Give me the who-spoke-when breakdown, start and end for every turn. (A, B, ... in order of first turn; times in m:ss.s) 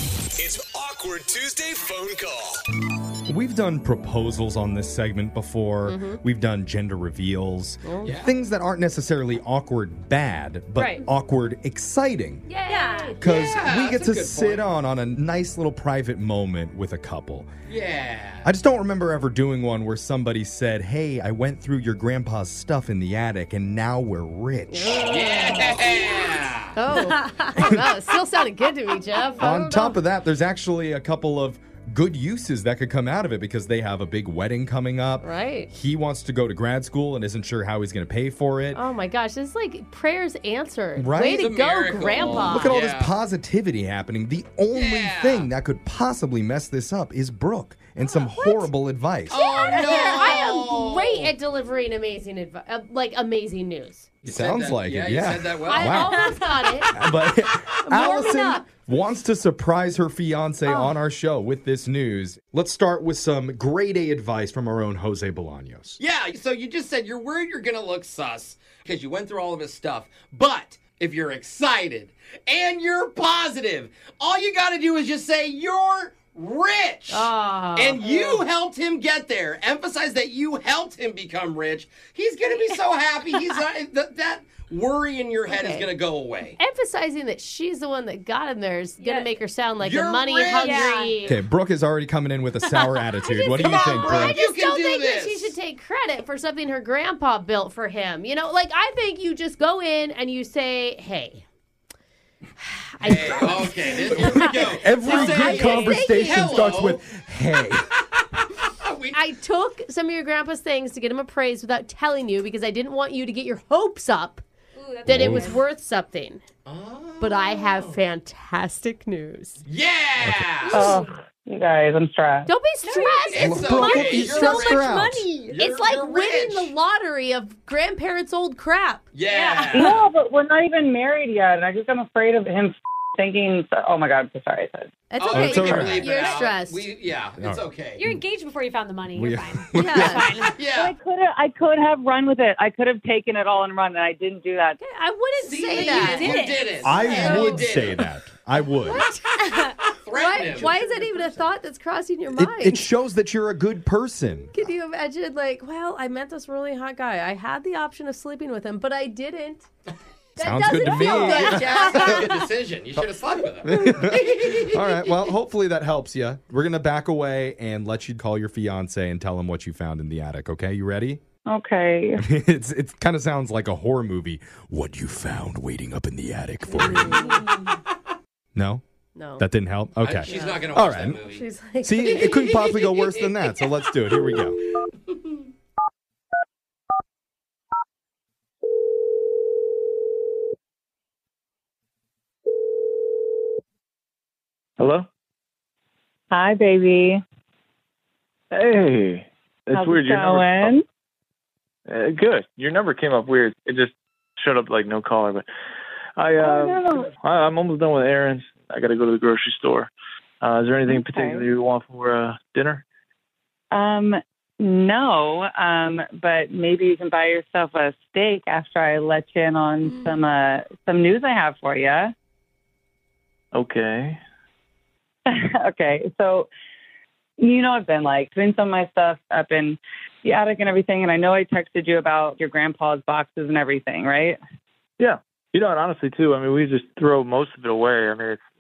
0:00.4-0:02.6 A
0:03.3-0:12.5 B
0:05.8-0:06.2 C
0:07.8-0:08.2 C
0:08.0-0:08.3 D
0:10.8-0:11.0 E
0:12.5-0:13.2 C
0:12.7-0:13.2 E
0:13.2-0:17.5 B
0:13.2-0:14.6 D
0:17.7-0:18.5 D
0:18.4-0:25.2 B
0:24.7-0:26.1 C
0:25.1-0:26.7 D
0:26.8-0:30.0 C
0:27.6-0:27.9 B
0:29.4-0:38.8 B
0:35.2-0:35.7 C
0:38.8-0:42.7 C
0:41.0-0:41.5 B
0:41.4-0:43.2 D
0:42.2-0:49.8 B
0:44.7-0:45.5 D
0:48.1-0:48.7 C
0:49.3-0:51.3 D
0:49.3-0:54.1 C
0:54.2-1:06.0 B
0:54.2-0:56.1 D
0:55.7-0:56.9 C
0:57.9-0:58.6 C
1:06.0-1:26.6 D
1:17.1-1:18.4 C
1:25.5-1:25.9 C
1:26.6-1:31.4 C
1:29.0-1:29.4 E
1:29.8-1:30.9 D
1:30.6-1:31.2 E
1:31.2-1:34.4 B
1:32.8-1:33.1 E
1:33.2-1:41.4 C
1:33.6-1:35.6 D
1:42.6-1:46.5 C
1:43.0-1:47.0 D
1:43.2-1:47.9 B
1:45.4-1:45.8 E
1:48.1-1:49.2 D
1:49.1-1:54.4 C
1:54.8-1:55.6 E
1:55.0-1:56.4 C
1:55.1-1:55.6 B
1:56.7-1:58.0 D
1:57.2-1:59.6 C
1:59.6-2:00.9 D
2:00.7-2:02.5 F
2:02.5-2:04.8 C
2:02.8-2:03.4 E
2:03.2-2:06.7 D
2:03.4-2:05.3 B
2:04.9-2:05.5 E
2:05.6-2:09.1 C
2:09.1-2:10.0 D
2:09.3-2:09.8 E
2:09.7-2:14.9 F
2:15.1-2:16.9 C
2:15.2-2:18.0 D
2:15.3-2:16.1 B
2:17.4-2:18.2 B
2:18.0-2:20.5 E
2:19.2-2:20.5 B
2:19.8-2:20.2 C
2:20.6-2:20.9 D
2:20.7-2:24.8 F
2:24.8-2:26.4 C
2:25.4-2:28.0 D
2:25.8-2:27.5 E
2:26.8-2:29.0 B
2:27.1-2:27.6 C
2:28.9-2:29.6 C
2:29.8-2:30.8 D
2:30.1-2:32.8 C
2:32.3-2:34.6 B
2:34.5-2:39.7 C
2:40.4-2:42.3 C
2:40.4-2:42.3 B
2:40.9-2:45.0 D
2:43.6-2:51.2 B
2:51.5-2:52.2 F
2:52.2-2:57.5 B
2:56.7-2:57.4 C
2:58.6-2:58.8 B
2:59.2-2:59.4 C
2:59.4-3:01.2 B
3:00.0-3:01.5 D
3:00.3-3:02.6 C
3:01.8-3:04.6 B
3:02.3-3:03.7 D
3:04.9-3:05.4 D
3:14.8-3:15.1 G
3:16.3-3:17.2 F
3:18.5-3:20.8 G
3:19.7-3:20.8 F
3:21.9-3:25.5 G
3:26.2-3:32.8 G
3:26.4-3:27.1 F
3:30.9-3:31.5 F
3:33.7-3:42.1 F
3:43.5-3:44.2 G
3:45.3-3:46.5 F
3:47.4-3:54.4 F
3:55.0-3:58.4 G